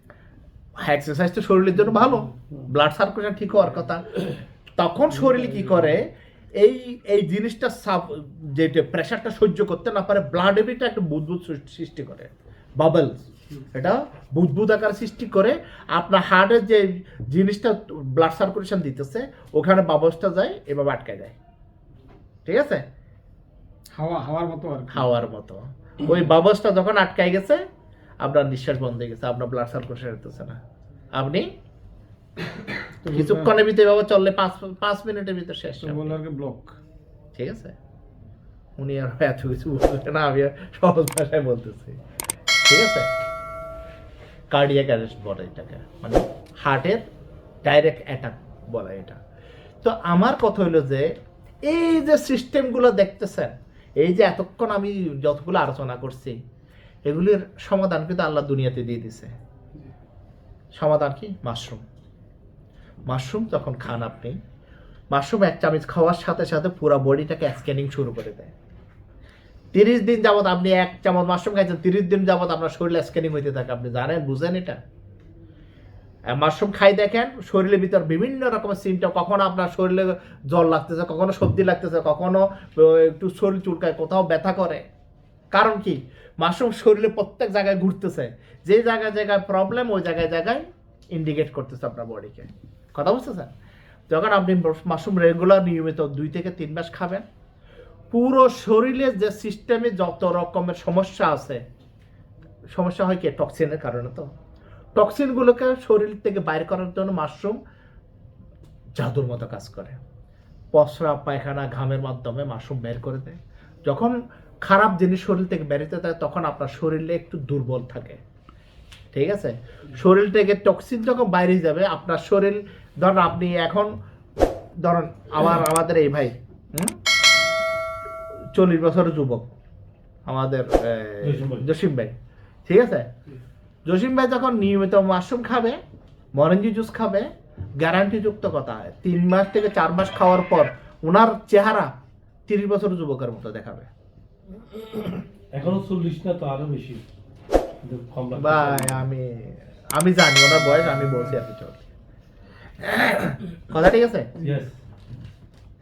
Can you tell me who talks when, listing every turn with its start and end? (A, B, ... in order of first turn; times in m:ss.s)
0:00.8-0:21.3 A
0:05.2-0:05.9 B
0:22.4-0:22.8 A
0:23.9-0:25.1 B
0:24.9-0:27.6 A
0:28.2-0:30.6 A
0:31.1-0:31.5 A
0:33.0-0:33.5 B
0:33.1-0:36.2 A
0:35.8-0:36.8 B
0:37.3-0:37.8 A
0:38.8-0:42.0 A
0:42.6-0:43.1 A
0:44.5-0:47.0 A
0:47.6-0:49.2 A
0:49.8-0:56.4 A
0:57.0-0:59.3 A
1:00.8-1:01.8 A
1:03.1-1:04.4 A
1:05.1-1:08.5 A
1:09.7-1:14.8 A
1:16.3-1:24.8 A
1:25.5-1:33.5 A
1:34.1-1:37.2 A
1:38.1-1:41.6 A
1:42.7-1:44.3 A
1:44.9-1:47.6 A
1:49.0-1:50.0 A
1:50.7-1:58.2 A
1:59.1-2:03.9 A
2:04.8-2:07.0 A
2:08.5-2:09.5 A
2:10.3-2:12.1 A
2:11.2-2:11.6 C
2:12.6-2:13.1 A
2:13.8-2:15.8 A
2:16.3-2:21.9 A
2:22.5-2:23.9 A
2:25.5-2:27.0 C
2:27.8-2:29.0 C
2:28.3-2:31.9 A
2:32.8-2:34.4 A
2:34.4-2:34.7 C